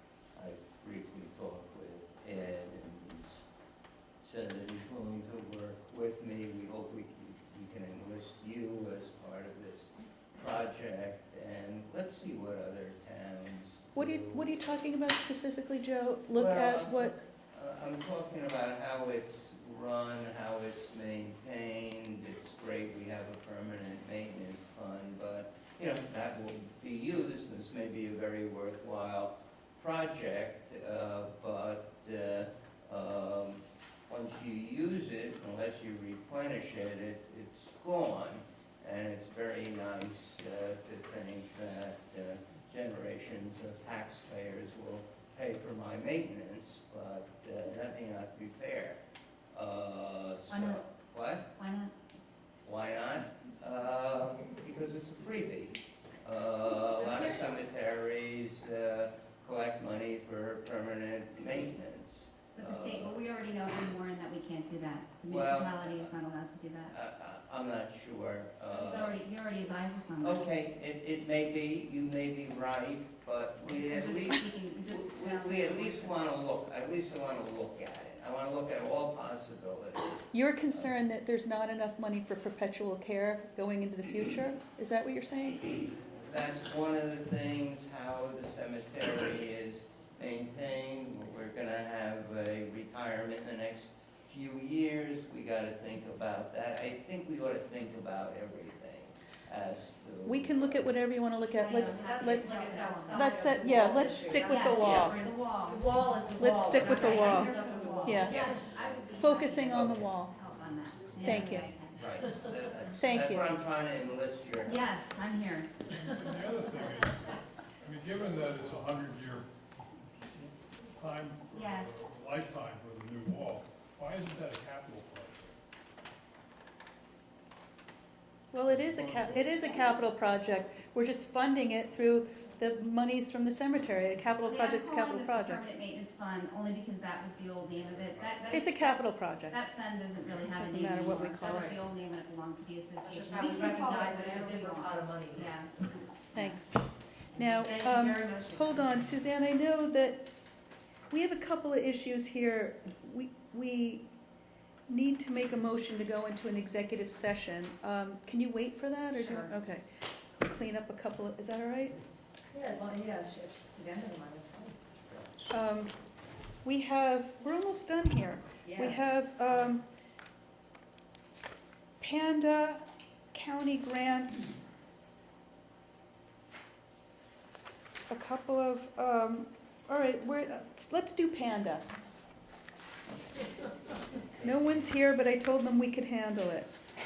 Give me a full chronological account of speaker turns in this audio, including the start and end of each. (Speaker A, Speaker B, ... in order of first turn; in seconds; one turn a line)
Speaker A: 0.4-3.4
Speaker A: 4.2-14.5
Speaker B: 14.0-17.1
Speaker A: 16.3-49.0
Speaker A: 49.5-51.5
Speaker C: 50.5-50.9
Speaker C: 51.5-51.9
Speaker A: 52.6-63.2
Speaker C: 56.9-57.6
Speaker C: 62.5-66.9
Speaker A: 65.3-66.2
Speaker A: 66.9-69.2
Speaker C: 68.7-70.5
Speaker A: 70.2-80.9
Speaker C: 73.8-76.2
Speaker B: 80.3-85.8
Speaker A: 86.2-100.9
Speaker B: 100.3-105.2
Speaker C: 101.5-103.4
Speaker D: 101.8-108.5
Speaker C: 104.4-112.2
Speaker B: 106.4-108.4
Speaker A: 108.2-108.9
Speaker B: 109.1-110.3
Speaker B: 111.2-111.7
Speaker A: 112.0-114.9
Speaker B: 113.0-113.6
Speaker C: 114.6-115.7
Speaker E: 115.9-119.5
Speaker E: 121.0-125.6
Speaker C: 121.5-122.0
Speaker B: 128.5-135.6
Speaker E: 128.7-129.5
Speaker C: 134.4-146.6
Speaker B: 138.5-139.6
Speaker B: 140.6-141.8
Speaker D: 143.0-145.5
Speaker B: 146.3-146.8
Speaker B: 147.3-150.3
Speaker D: 147.6-148.9
Speaker B: 151.1-154.1
Speaker B: 154.9-162.0
Speaker D: 159.2-159.5
Speaker D: 162.5-164.9
Speaker B: 165.5-165.9
Speaker B: 166.6-169.8
Speaker D: 168.7-169.0
Speaker B: 172.0-174.6
Speaker B: 178.1-181.9
Speaker B: 184.4-186.7